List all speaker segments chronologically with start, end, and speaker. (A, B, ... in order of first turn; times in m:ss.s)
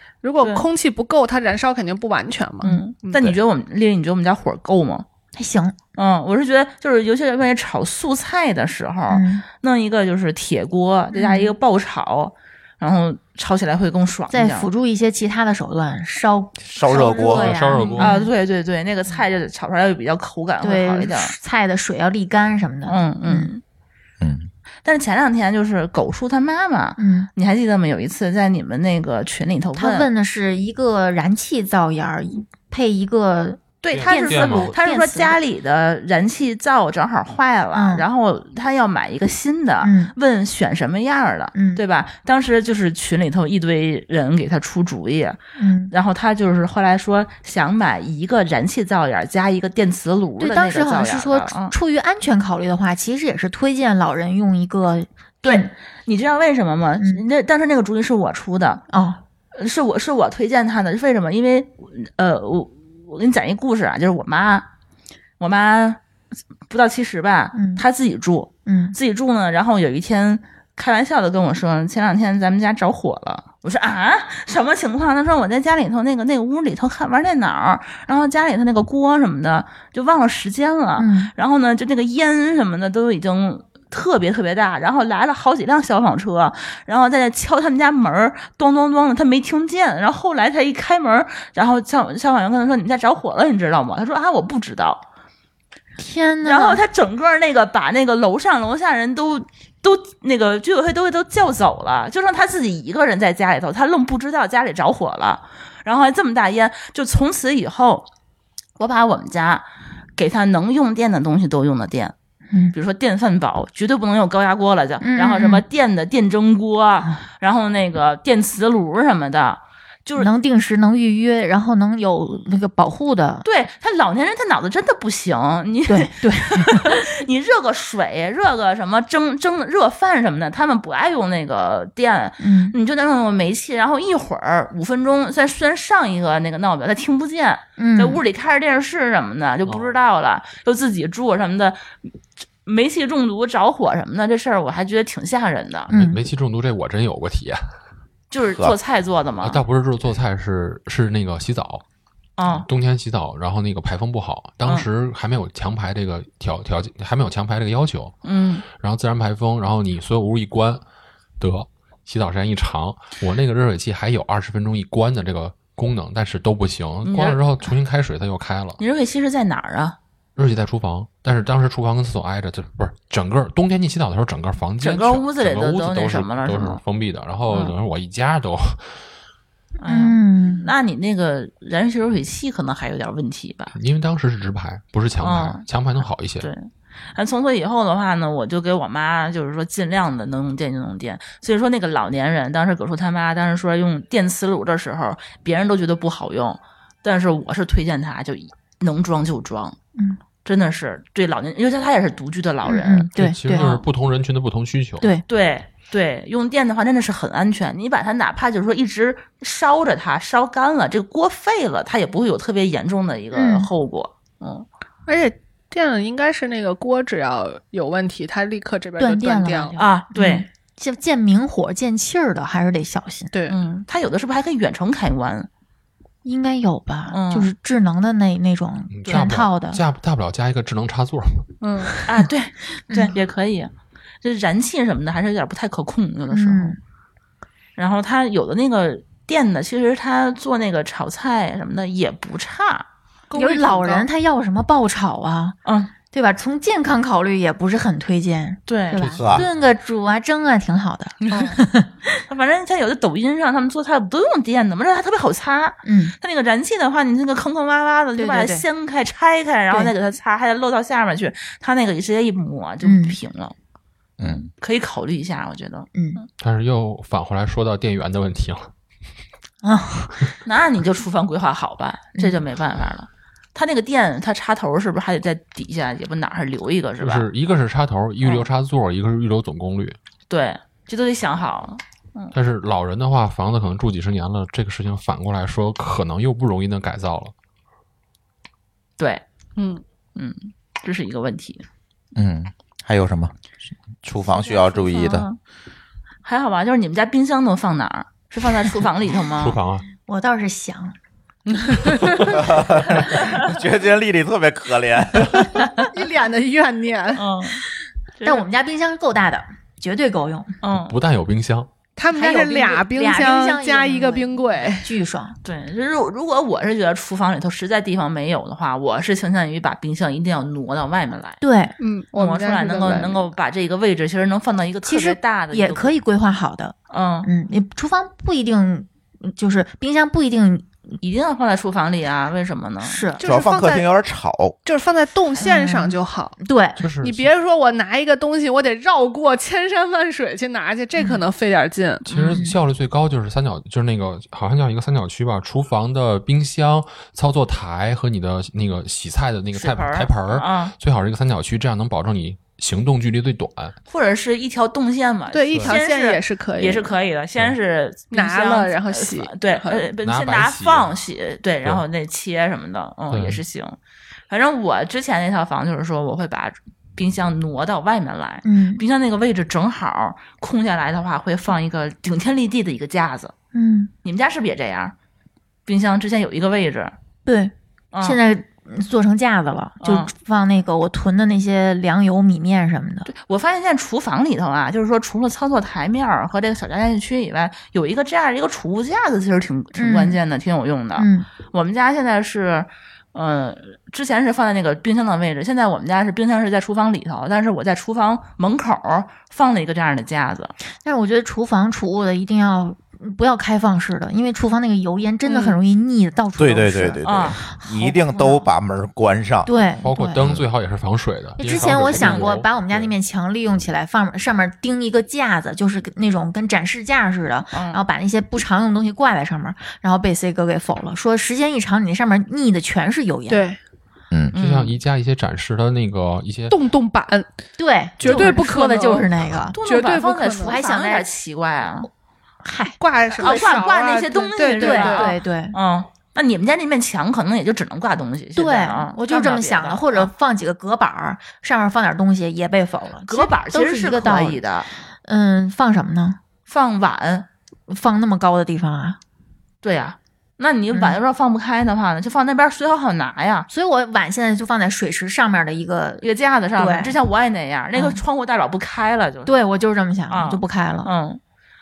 0:00.2-0:03.2 A
0:00.4-0:00.6 B
0:02.6-0:05.0 B
0:05.3-0:05.8 C
0:05.9-0:14.7 B
0:09.1-0:09.4 C
0:11.1-0:11.5 C
0:14.3-0:18.3 C
0:16.6-0:17.5 D
0:17.0-0:21.3 B
0:17.3-0:18.2 E
0:20.6-0:23.5 C
0:22.9-0:23.6 B
0:24.2-0:24.5 D
0:24.8-0:30.1 B
0:27.0-0:27.3 C
0:29.8-0:35.4 C
0:33.8-0:45.4 B
0:33.9-0:34.7 E
0:37.7-0:38.0 C
0:39.8-0:40.1 C
0:41.5-0:41.8 C
0:45.6-0:45.9 C
0:45.9-0:51.7 B
0:50.4-0:55.7 C
0:55.4-0:58.8 B
0:58.9-0:59.2 C
0:59.6-1:04.6 B
1:05.4-1:06.0 B
1:06.7-1:35.0 B
1:07.5-1:07.8 C
1:08.6-1:09.0 C
1:21.0-1:21.3 C
1:36.0-1:36.8 C
1:36.4-1:48.1 B
1:48.8-1:52.1 B
1:52.7-2:00.3 B
1:55.0-1:55.6 C
2:00.2-2:03.4 C
2:03.4-2:21.9 B
2:05.9-2:07.0 C
2:12.4-2:12.7 C
2:17.8-2:18.2 C
2:19.6-2:19.9 E
2:22.6-2:25.9 B
2:25.9-2:26.2 C
2:25.9-2:27.7 E
2:28.3-2:29.6 B
2:28.4-2:28.7 D
2:29.4-2:31.8 E
2:32.4-2:32.7 B
2:32.7-2:38.2 E
2:38.2-2:38.6 B
2:38.8-2:40.8 E
2:41.4-2:48.8 E
2:47.0-2:47.4 B
2:48.8-2:50.0 B
2:50.4-2:59.0 E
2:54.8-2:56.8 B
2:57.5-2:57.7 B
2:59.8-3:03.7 B
2:59.8-3:00.7 C
3:03.7-3:06.5 E
3:05.2-3:05.6 B
3:06.4-3:19.8 B
3:20.0-3:20.2 C
3:20.4-3:23.8 B
3:22.6-3:23.7 C
3:23.2-3:25.1 E
3:25.3-3:34.6 B
3:33.3-3:33.7 C
3:35.0-3:39.8 A
3:39.0-3:43.3 C
3:39.8-3:40.5 B
3:43.3-3:43.6 A
3:43.5-3:45.5 B
3:46.2-3:49.8 C
3:47.1-3:47.5 B
3:48.9-3:52.1 E
3:51.6-3:51.9 A
3:52.0-3:53.7 B
3:54.2-3:56.8 B
3:56.3-3:56.8 C
3:57.8-4:02.8 B
4:03.3-4:04.0 A
4:03.3-4:12.2 C
4:05.6-4:05.9 B
4:08.7-4:09.1 B
4:09.0-4:09.5 E
4:09.1-4:09.5 D
4:11.2-4:11.6 B
4:11.3-4:11.6 A
4:12.3-4:23.5 B
4:15.8-4:16.1 C
4:18.2-4:18.6 C
4:22.8-4:23.2 C
4:24.2-4:24.5 D
4:24.2-4:26.2 B
4:25.9-4:26.2 C
4:26.4-4:28.7 E
4:29.6-4:30.3 C
4:30.4-4:37.2 B
4:37.0-4:40.0 E
4:40.3-4:42.3 B
4:42.3-4:47.3 E
4:49.0-4:49.2 B
4:49.6-4:49.8 A
4:50.1-4:51.6 B
4:52.2-4:53.3 D
4:54.0-4:55.3 D
4:54.4-4:55.4 B
4:54.5-4:54.8 C
4:56.2-4:59.6 B
4:59.4-4:59.8 E
5:00.0-5:00.9 C
5:01.6-5:02.2 A
5:02.2-5:05.5 D
5:03.2-5:03.5 B
5:05.8-5:07.3 A
5:07.1-5:07.6 B
5:08.2-5:08.4 B
5:08.2-5:10.5 C
5:10.6-5:11.0 B
5:10.7-5:11.7 E
5:12.0-5:14.9 A
5:12.1-5:15.4 C
5:15.4-5:21.4 B
5:21.4-5:21.8 C
5:21.8-5:23.3 A
5:22.1-5:26.0 B
5:24.8-5:30.7 C
5:26.9-5:27.3 B
5:31.0-5:33.1 B
5:32.8-5:33.2 C
5:33.2-5:33.8 A
5:33.2-5:34.6 D
5:34.6-5:36.4 A
5:35.4-5:36.8 C
5:36.8-5:37.3 E
5:37.0-5:42.1 A
5:41.0-5:41.2 C
5:42.1-5:42.4 B
5:42.1-5:53.8 E
5:49.5-5:50.7 B
5:53.9-6:03.8 B
5:55.3-5:56.9 A
5:58.1-5:59.8 A
6:00.0-6:00.9 E
6:03.1-6:03.4 E
6:04.3-6:13.3 B
6:08.4-6:08.8 C
6:13.5-6:13.9 C
6:14.0-6:14.9 B
6:15.6-6:16.9 B
6:17.2-6:23.1 C
6:17.9-6:18.2 B
6:19.8-6:20.1 B
6:23.0-6:40.5 B
6:29.8-6:30.2 C
6:31.0-6:31.3 C
6:40.8-6:48.5 C
6:45.2-6:45.6 A
6:46.4-6:49.5 D
6:47.0-6:47.5 B
6:49.4-6:50.2 C
6:49.8-6:52.9 E
6:50.2-6:50.4 D
6:51.4-7:03.4 C
6:51.5-6:52.3 B
6:57.5-6:57.8 B
7:03.3-7:03.6 A
7:04.3-7:04.8 B
7:04.3-7:06.6 E
7:06.5-7:07.3 A
7:07.6-7:09.6 C
7:08.0-7:10.6 A
7:08.0-7:08.4 B
7:09.5-7:11.9 B
7:10.4-7:11.1 C
7:12.4-7:13.6 C
7:12.8-7:15.1 A
7:13.2-7:20.1 B
7:14.4-7:15.6 C
7:18.3-7:24.4 C
7:23.1-7:24.7 B
7:24.9-7:26.2 C
7:26.4-7:27.3 B
7:27.7-7:29.0 C
7:29.6-7:33.5 B
7:30.7-7:31.0 C
7:33.5-7:37.0 C
7:36.0-7:39.3 B
7:37.7-7:38.0 C
7:39.2-7:40.9 C
7:40.1-7:41.2 B